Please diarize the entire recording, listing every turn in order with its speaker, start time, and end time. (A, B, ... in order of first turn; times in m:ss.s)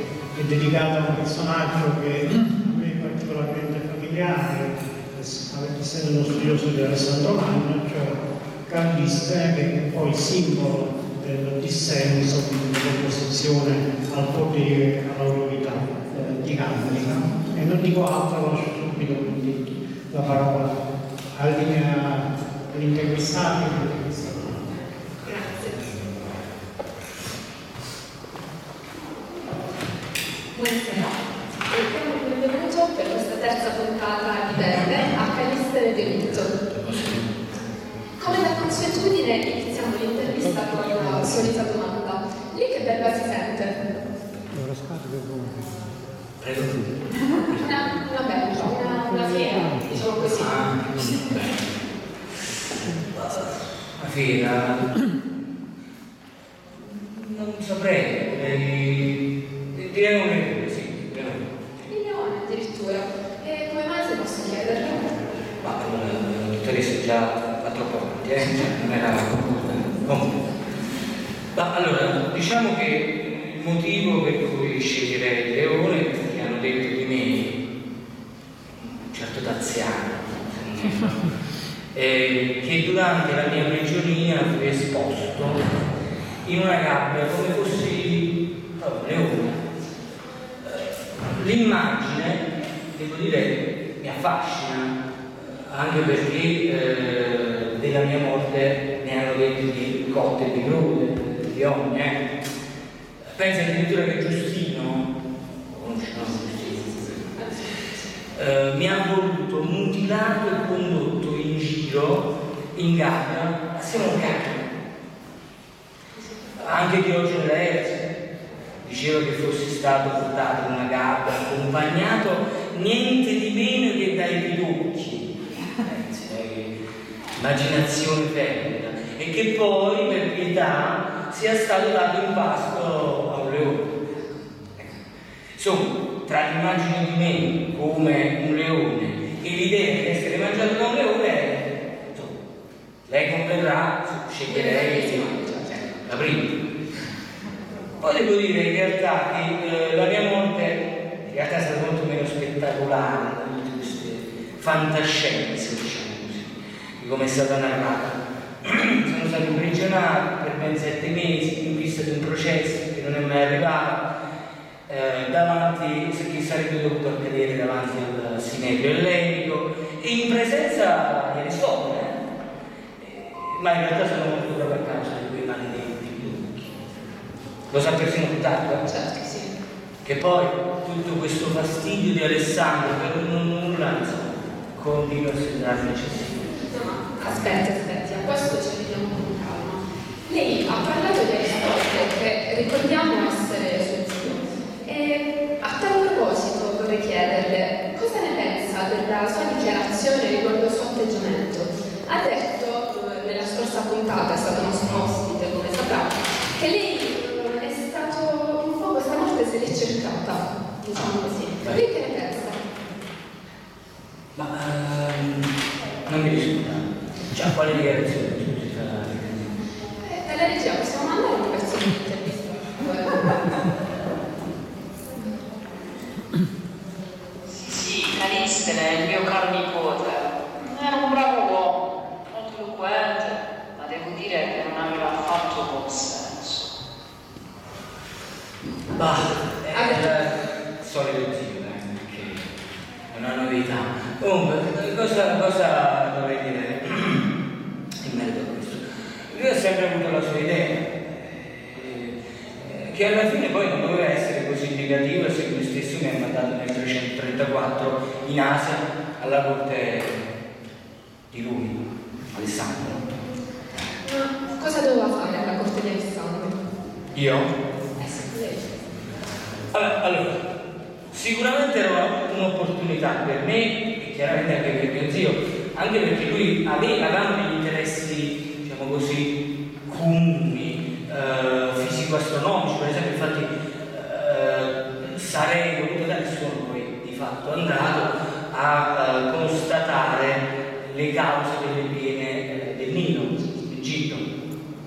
0:00.3-0:20.8 A
0:21.4-0:24.6 A
0:25.2-0:25.9 B
0:30.5-0:36.6 B
0:36.6-0:37.3 C
0:38.2-0:43.8 B
0:46.4-0:47.8 C
0:47.6-0:50.6 B
0:50.2-0:51.7 C
0:52.8-0:55.1 C
0:56.7-1:01.9 C
1:01.9-1:05.1 B
1:05.6-1:10.5 C
1:11.5-1:17.6 C
1:18.8-1:21.3 C
1:21.9-1:25.6 C
1:26.4-1:29.7 C
1:30.6-1:42.2 C
1:43.3-1:45.1 C
1:45.7-1:47.4 C
1:46.1-1:48.1 B
1:48.3-1:54.8 C
1:56.2-1:56.8 B
1:56.6-1:58.1 C
1:58.8-2:06.8 C
2:07.4-2:14.1 C
2:15.6-2:22.4 C
2:23.1-2:26.6 C
2:24.5-2:25.8 B
2:28.0-2:44.0 C
2:44.9-2:52.2 C
2:53.0-2:56.8 C
2:57.7-2:58.8 C
2:58.8-2:59.6 B
3:00.0-3:06.6 C
3:06.7-3:32.6 B
3:31.0-3:31.8 C
3:34.4-3:35.6 C
3:36.1-3:39.6 C
3:40.0-3:43.6 B
3:47.6-3:56.7 D
3:58.9-4:02.5 C
3:59.7-4:00.3 B
4:03.1-4:07.3 C
4:08.0-4:20.2 C
4:21.3-4:23.0 C
4:24.0-4:26.6 B
4:27.1-4:27.6 C
4:28.0-4:28.7 B
4:29.7-4:30.4 C
4:31.1-4:54.3 C